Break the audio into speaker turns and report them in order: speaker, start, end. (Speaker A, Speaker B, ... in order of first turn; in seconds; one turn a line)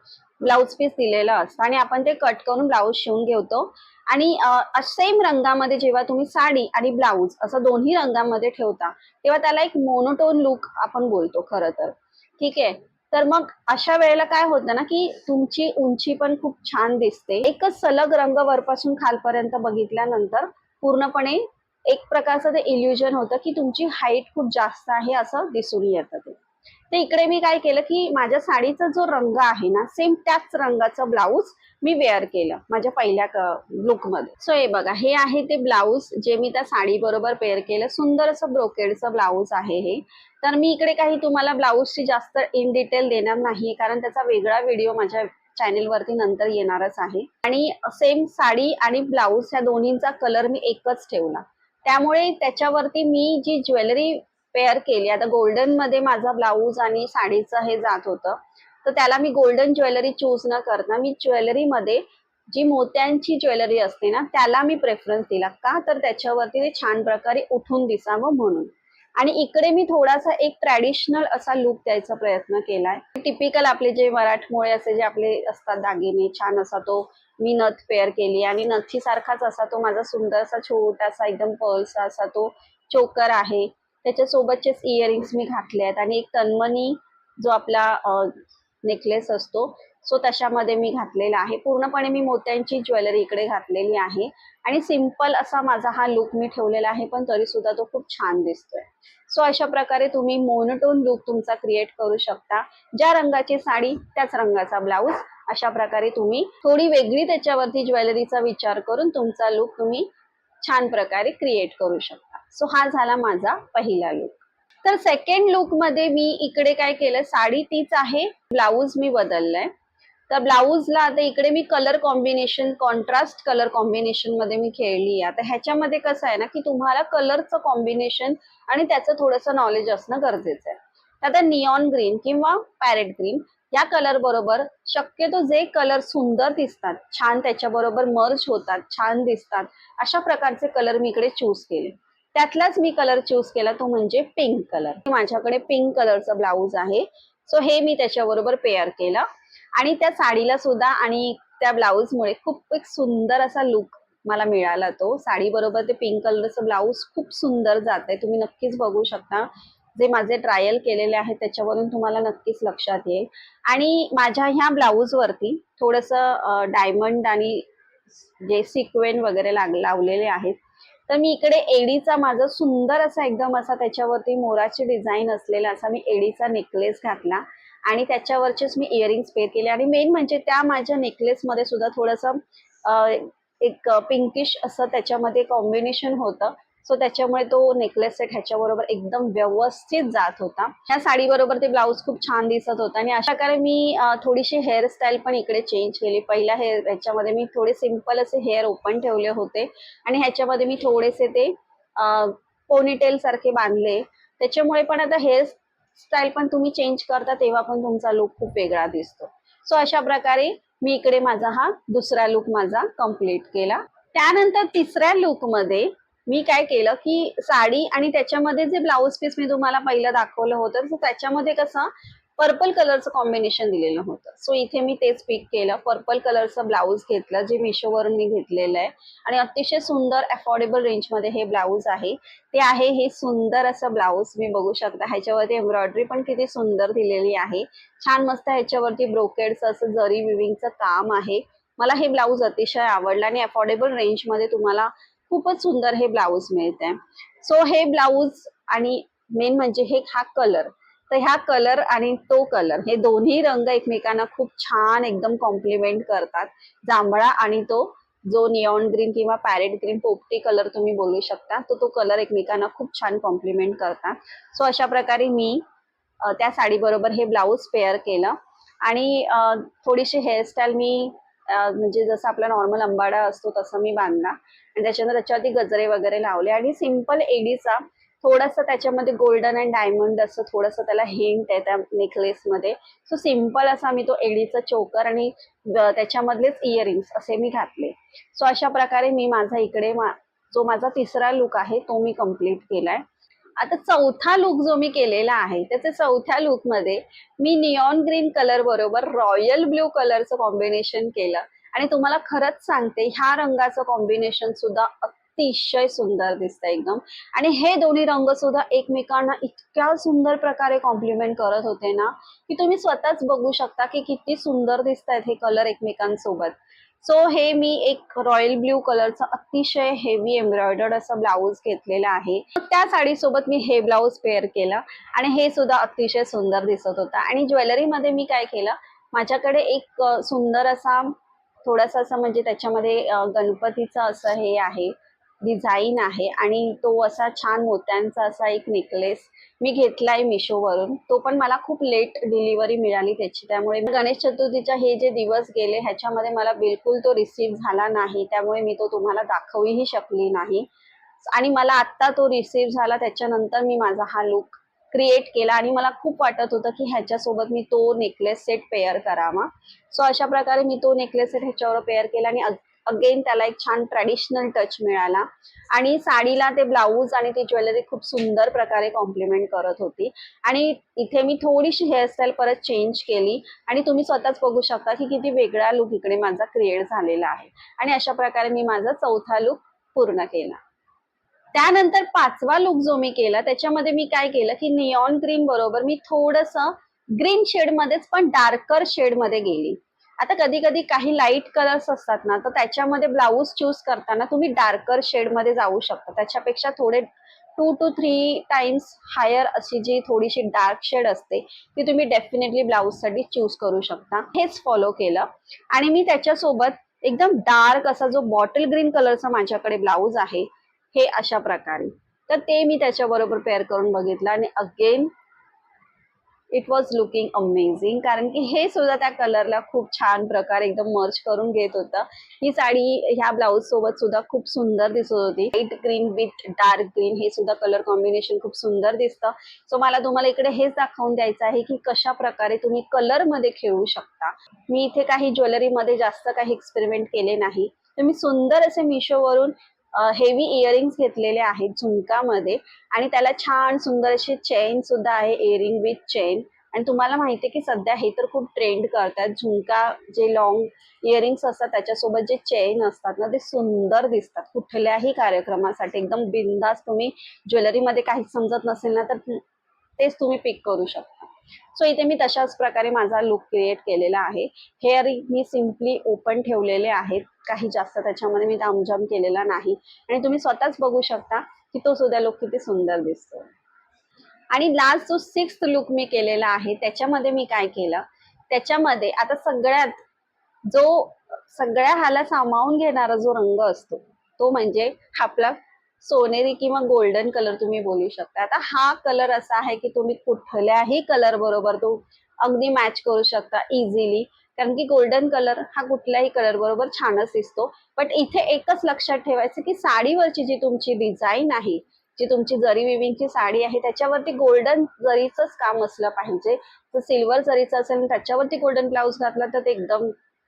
Speaker A: 0.4-26.4
Speaker A: 26.9-110.1
Speaker A: 110.6-119.7
Speaker A: 120.3-167.6
Speaker A: 168.4-265.6
Speaker A: 266.2-293.0
Speaker A: 293.6-350.7
Speaker A: 351.2-380.6
Speaker A: 381.5-415.1
Speaker A: 416.5-459.4
Speaker A: 460.0-473.5
Speaker A: 474.5-480.0
Speaker A: 480.7-510.1